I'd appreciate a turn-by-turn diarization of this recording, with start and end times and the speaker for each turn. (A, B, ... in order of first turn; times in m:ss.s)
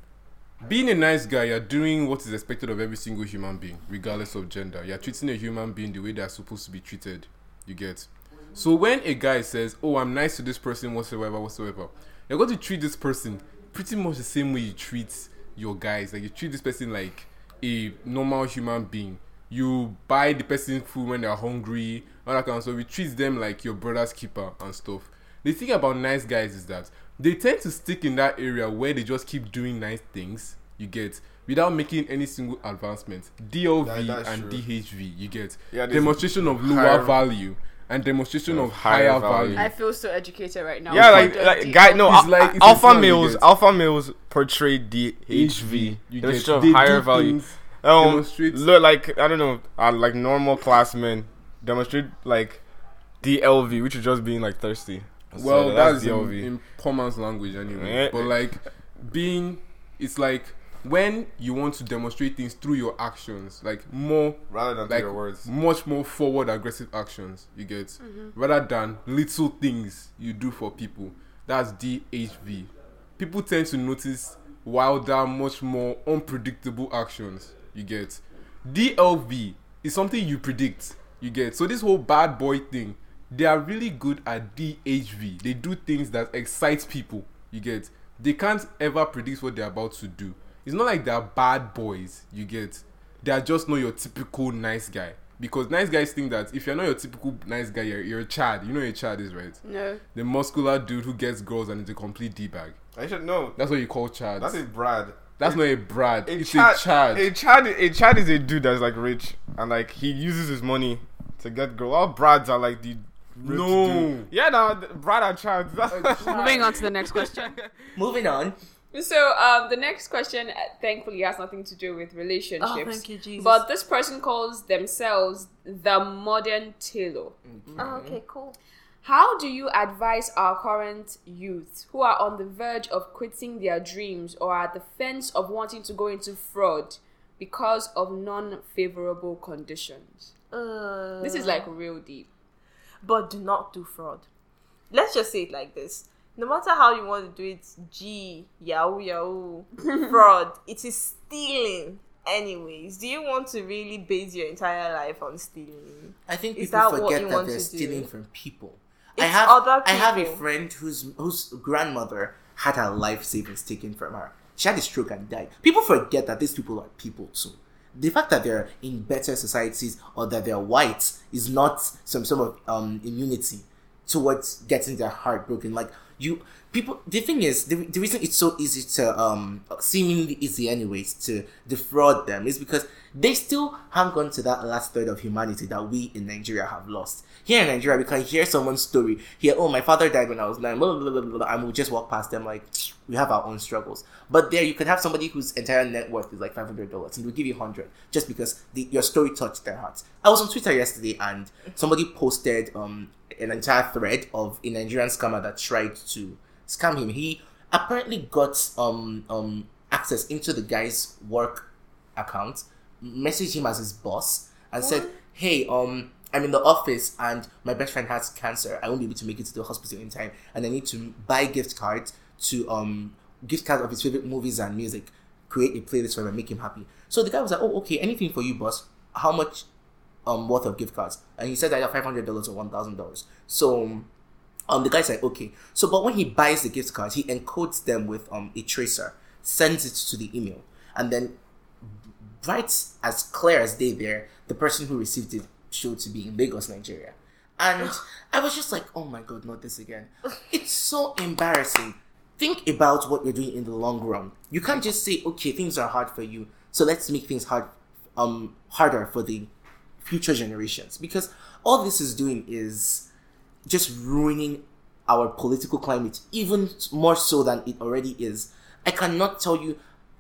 0:00.6-0:39.7 A
0:33.8-0:34.6 B
0:35.7-0:37.2 B
0:38.5-0:39.7 B
0:39.6-0:42.1 C
0:40.9-0:41.4 A
0:40.9-0:52.6 B
0:42.0-0:43.4 A
0:45.3-0:48.6 A
0:53.2-0:56.5 B
0:55.4-1:39.6 A
0:57.7-0:58.4 B
1:04.5-1:05.5 B
1:08.0-1:08.3 C
1:39.6-1:40.0 C
1:40.1-1:42.8 A
1:42.9-1:43.6 B
1:43.6-1:44.6 A
1:44.4-1:45.6 B
1:45.4-1:47.3 A
1:46.2-1:57.8 B
1:53.4-1:54.3 A
1:55.9-1:56.4 A
1:56.2-1:57.5 C
1:56.3-1:56.6 D
1:57.9-1:58.6 E
1:58.9-2:07.3 C
2:02.6-2:03.6 D
2:07.4-2:08.2 E
2:07.8-2:08.6 D
2:09.0-2:20.3 C
2:20.5-2:21.7 D
2:21.2-2:22.3 C
2:23.0-2:24.2 D
2:24.9-2:38.1 D
2:36.3-3:49.6 E
2:39.2-2:40.4 D
3:34.8-3:35.2 D
3:50.2-3:54.1 E
3:54.7-4:19.5 E
4:20.0-4:23.1 E
4:23.7-4:29.8 E